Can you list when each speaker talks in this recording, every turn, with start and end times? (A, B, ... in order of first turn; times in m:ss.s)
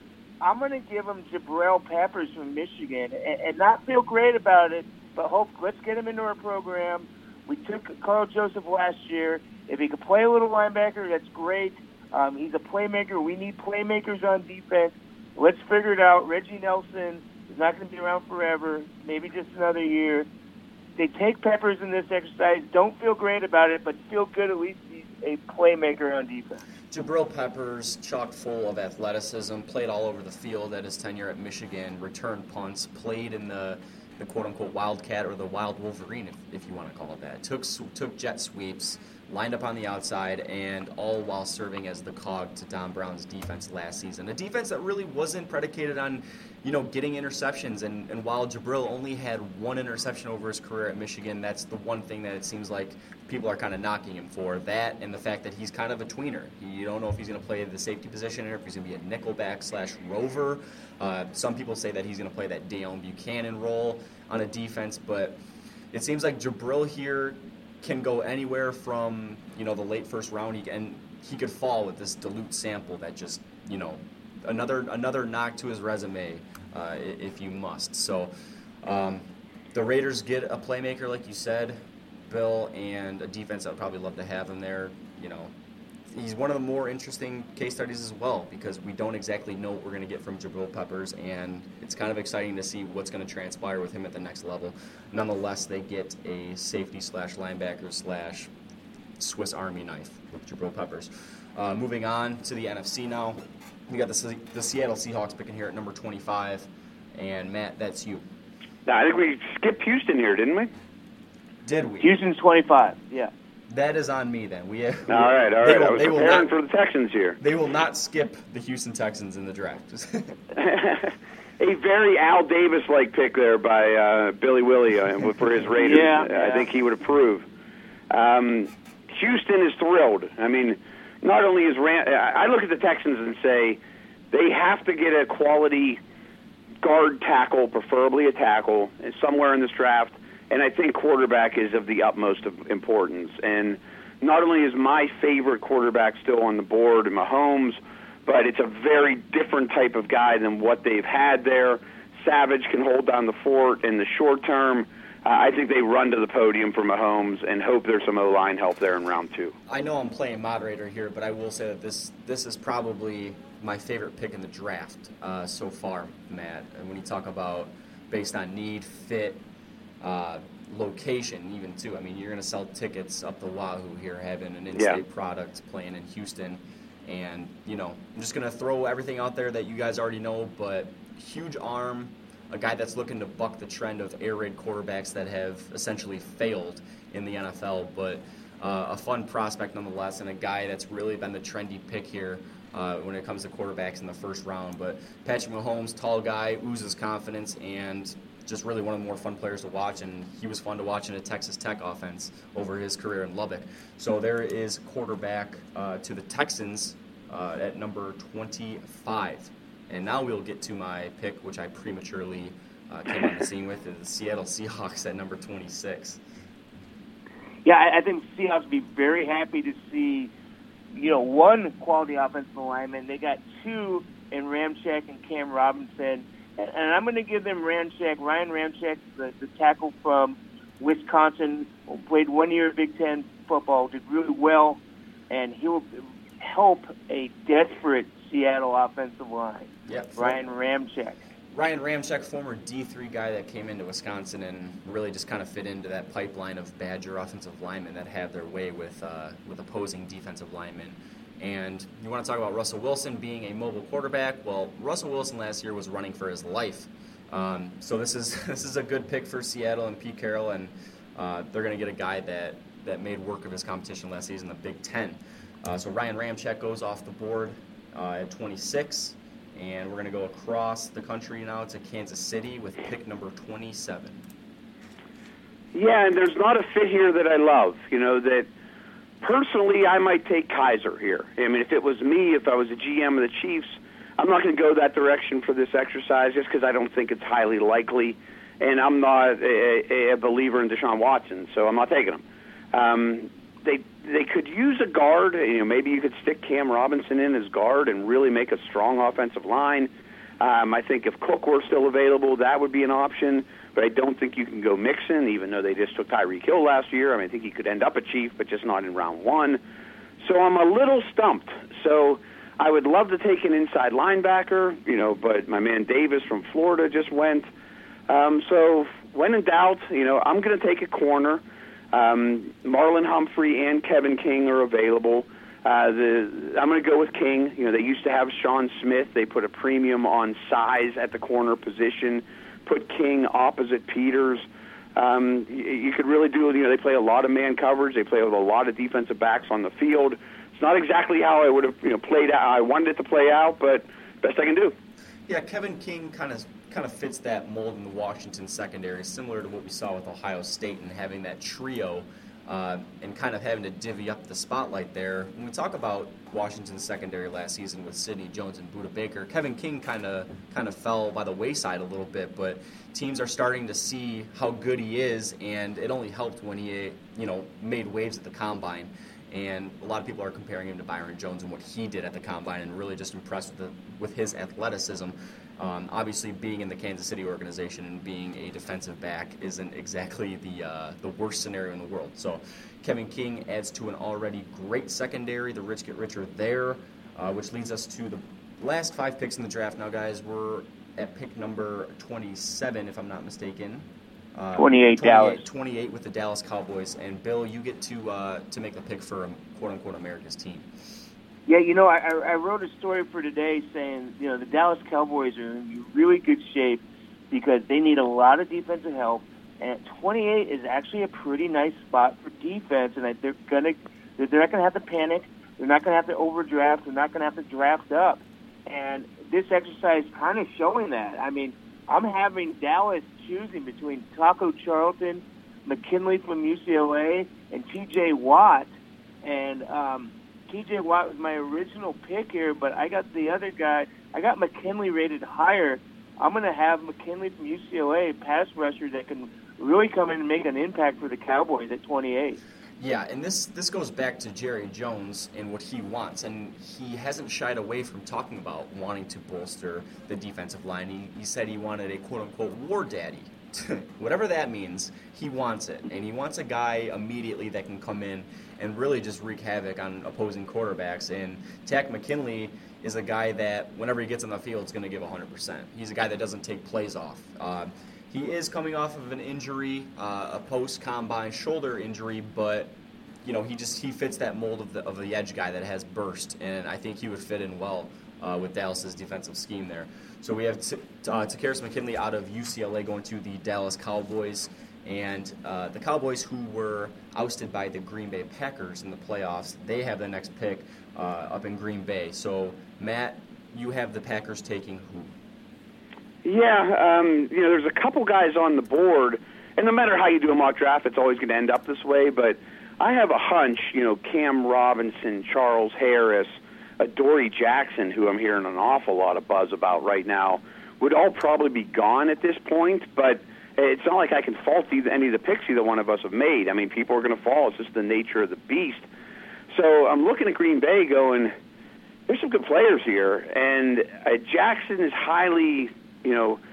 0:00.4-0:20.3 A
0:21.0-0:26.6 A
0:26.9-1:05.4 B
1:05.9-1:18.3 B
1:18.8-1:25.5 B
1:26.1-1:38.5 B
1:39.2-1:48.2 B
1:48.8-1:50.7 C
1:51.6-1:52.1 B
1:52.0-1:53.3 A
1:53.7-1:56.5 B
1:55.1-1:57.4 C
1:57.4-2:00.4 B
2:00.6-2:07.4 C
2:05.8-2:06.6 A
2:08.1-2:13.8 C
2:14.3-2:16.0 C
2:16.8-2:39.5 C
2:39.7-2:49.4 B
2:50.0-3:36.2 B
3:37.6-3:40.3 A
3:40.9-4:01.2 A
3:59.9-4:00.4 B
4:01.5-4:34.2 B
4:35.7-4:38.5 C
4:39.2-5:09.6 C
5:10.2-5:17.4 C
5:18.1-5:21.4 C
5:21.9-5:44.7 C
5:45.3-6:40.7 B
6:34.6-6:35.4 A
6:41.5-7:08.7 A
7:09.2-7:22.4 A
7:22.8-8:15.1 B
8:16.2-8:38.9 C
8:39.5-8:41.3 C
8:42.1-8:46.4 C